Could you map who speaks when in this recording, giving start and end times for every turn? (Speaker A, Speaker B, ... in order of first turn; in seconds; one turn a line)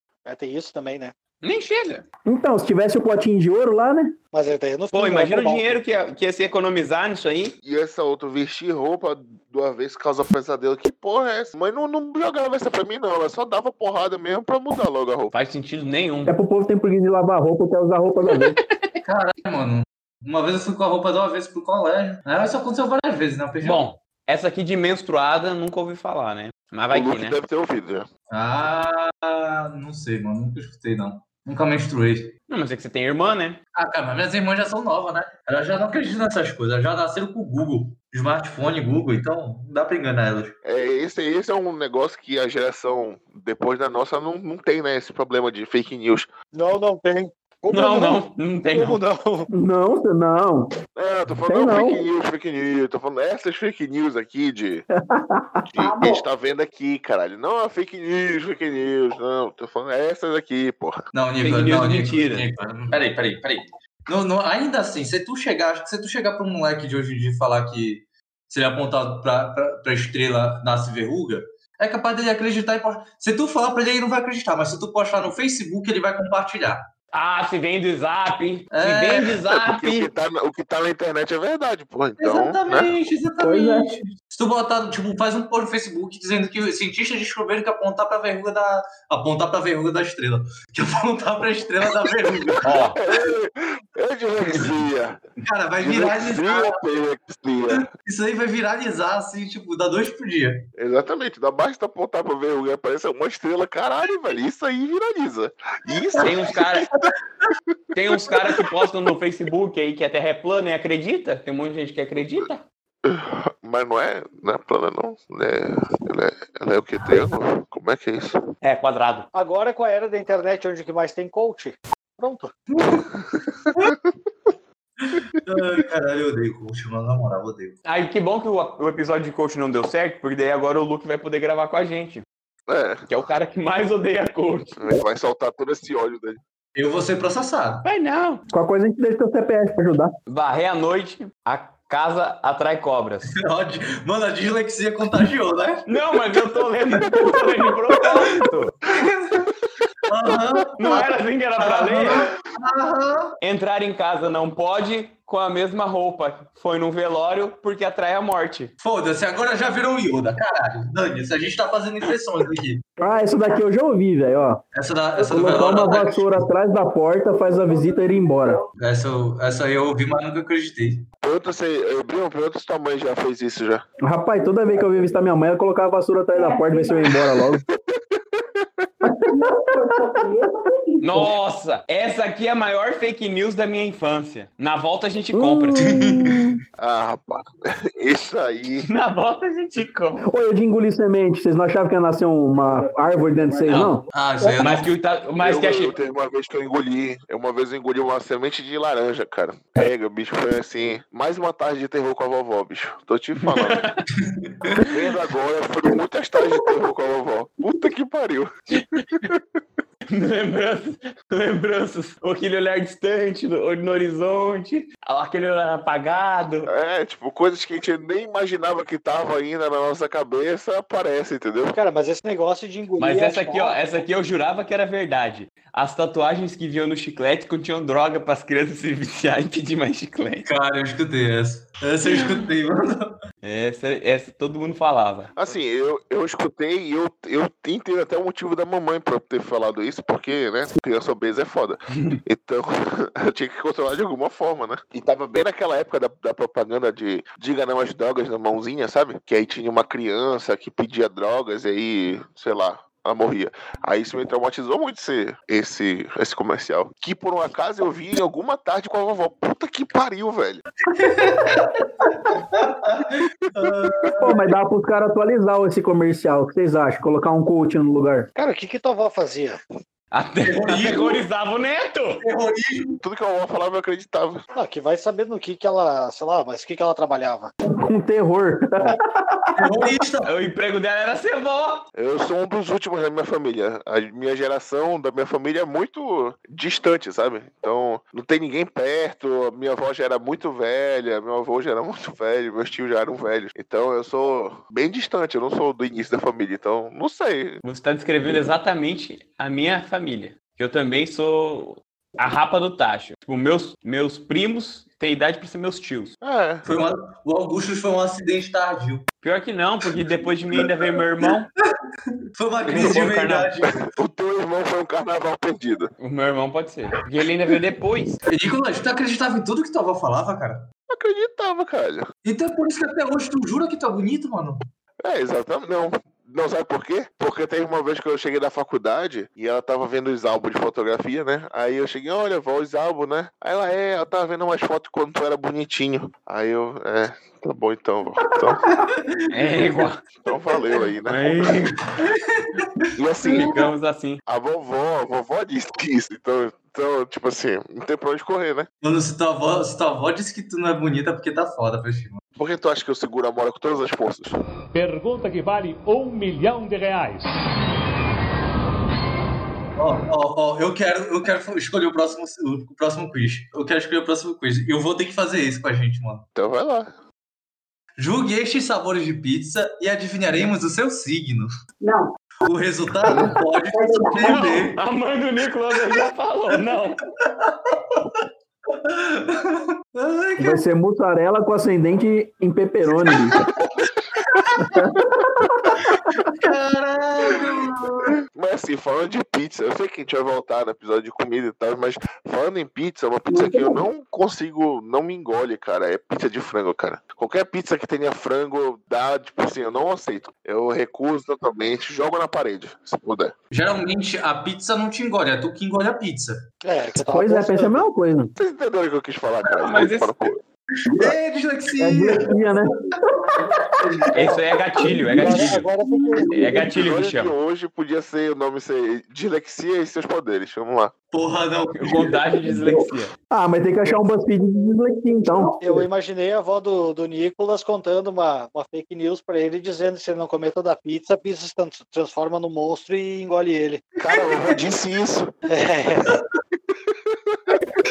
Speaker A: 0.2-1.1
Speaker B: 1.4-2.0
Speaker C: 2.3-4.2
Speaker A: 4.3-5.8
Speaker B: 4.9-7.5
Speaker D: 7.6-15.3
Speaker B: 15.3-16.3
Speaker C: 16.2-18.6
Speaker B: 18.3-19.0
Speaker E: 19.1-23.8
Speaker B: 23.6-27.4
Speaker D: 26.9-28.1
Speaker E: 28.3-32.3
Speaker B: 32.5-33.6
Speaker E: 33.8-40.5
Speaker D: 40.6-46.3
Speaker A: 46.5-49.5
Speaker B: 47.7-49.0
Speaker C: 49.5-50.7
Speaker D: 51.0-54.9
Speaker C: 51.5-52.1
Speaker C: 55.1-55.6
Speaker D: 55.7-61.0
Speaker F: 55.8-56.2
Speaker E: 61.1-76.8
Speaker B: 61.4-62.5
Speaker B: 77.1-80.1
Speaker E: 78.7-79.4
Speaker D: 79.5-82.9
Speaker E: 82.2-93.3
Speaker C: 83.4-83.9
Speaker B: 92.6-93.0
Speaker D: 92.7-95.2
Speaker E: 95.4-96.8
Speaker D: 95.8-97.9
Speaker E: 97.7-100.7
Speaker D: 100.8-106.9
Speaker B: 106.2-106.9
Speaker B: 107.9-112.6
Speaker D: 113.0-118.4
Speaker B: 118.6-119.3
Speaker A: 119.3-122.5
Speaker E: 122.7-123.1
Speaker D: 123.2-124.0
Speaker E: 125.0-127.8
Speaker B: 127.9-132.2
Speaker D: 132.7-133.2
Speaker B: 133.1-134.8
Speaker D: 134.8-136.4
Speaker E: 136.8-137.8
Speaker B: 137.8-138.4
Speaker C: 138.5-140.1
Speaker B: 140.3-143.3
Speaker E: 143.3-147.5
Speaker B: 145.9-148.8
Speaker D: 147.1-147.4
Speaker E: 148.0-148.4
Speaker E: 148.9-149.5
Speaker E: 150.1-151.1
Speaker B: 150.8-152.3
Speaker E: 151.6-153.3
Speaker B: 153.4-158.7
Speaker E: 158.8-162.8
Speaker C: 163.0-164.6
Speaker E: 164.8-166.5
Speaker C: 165.2-168.6
Speaker E: 168.8-171.1
Speaker D: 171.2-173.8
Speaker C: 174.0-177.6
Speaker F: 176.3-177.2
Speaker D: 177.3-178.9
Speaker C: 179.1-179.4
Speaker F: 179.3-181.2
Speaker B: 181.0-185.8
Speaker C: 185.3-186.6
Speaker E: 185.8-186.5
Speaker D: 186.8-188.9
Speaker B: 188.8-190.3
Speaker C: 190.2-194.0
Speaker B: 193.7-194.0
Speaker E: 194.1-194.9
Speaker B: 194.6-195.9
Speaker D: 195.4-203.8
Speaker B: 203.4-204.0
Speaker E: 204.2-204.8
Speaker D: 204.8-209.4
Speaker B: 210.1-216.7
Speaker D: 216.7-221.8
Speaker A: 221.7-223.8
Speaker B: 223.0-230.5
Speaker E: 230.5-233.2
Speaker B: 233.4-235.3
Speaker D: 235.3-260.6
Speaker B: 241.9-242.2
Speaker E: 260.9-264.4
Speaker D: 263.5-264.1
Speaker C: 264.2-268.3
Speaker A: 268.4-269.6
Speaker B: 270.1-272.2
Speaker E: 270.4-271.2
Speaker E: 272.2-273.0
Speaker D: 273.0-274.4
Speaker A: 274.6-277.5
Speaker C: 277.7-279.9
Speaker E: 279.6-280.3
Speaker B: 280.2-281.9
Speaker D: 281.9-297.6
Speaker B: 297.6-306.1
Speaker D: 306.2-306.7
Speaker E: 306.6-309.1
Speaker B: 309.2-311.5
Speaker E: 312.4-313.8
Speaker B: 312.7-313.6
Speaker D: 313.9-315.9
Speaker B: 316.0-318.2
Speaker E: 318.3-320.7
Speaker D: 320.9-322.1
Speaker E: 322.2-324.6
Speaker D: 325.0-338.7
Speaker E: 339.1-339.6
Speaker B: 339.3-340.1
Speaker D: 340.1-341.4
Speaker B: 341.1-341.8
Speaker E: 342.0-342.9
Speaker D: 342.9-343.7
Speaker B: 343.2-344.2
Speaker D: 344.3-348.7
Speaker E: 348.8-352.2
Speaker D: 352.4-354.4
Speaker G: 354.7-357.3
Speaker E: 359.8-366.3
Speaker D: 366.4-366.9
Speaker E: 368.0-371.5
Speaker F: 371.8-372.1
Speaker E: 372.4-374.8
Speaker D: 373.0-373.4
Speaker F: 373.7-374.6
Speaker B: 374.2-377.0
Speaker E: 375.9-376.6
Speaker E: 377.2-380.6
Speaker C: 380.4-383.4
Speaker E: 384.2-384.7
Speaker C: 384.6-385.8
Speaker E: 385.8-388.1
Speaker D: 388.3-403.3
Speaker F: 393.4-393.8
Speaker E: 403.5-406.4
Speaker A: 406.6-407.9
Speaker C: 407.1-408.3
Speaker D: 408.4-410.4
Speaker B: 409.6-410.1
Speaker E: 410.8-412.4
Speaker C: 411.8-414.1
Speaker B: 414.1-415.7
Speaker C: 414.8-415.2
Speaker A: 415.1-416.3
Speaker B: 416.3-417.3
Speaker D: 416.6-420.9
Speaker E: 421.1-422.2
Speaker B: 421.7-423.1
Speaker C: 422.5-425.8
Speaker A: 425.6-433.9
Speaker D: 434.0-435.3
Speaker E: 434.1-434.6
Speaker A: 435.5-436.2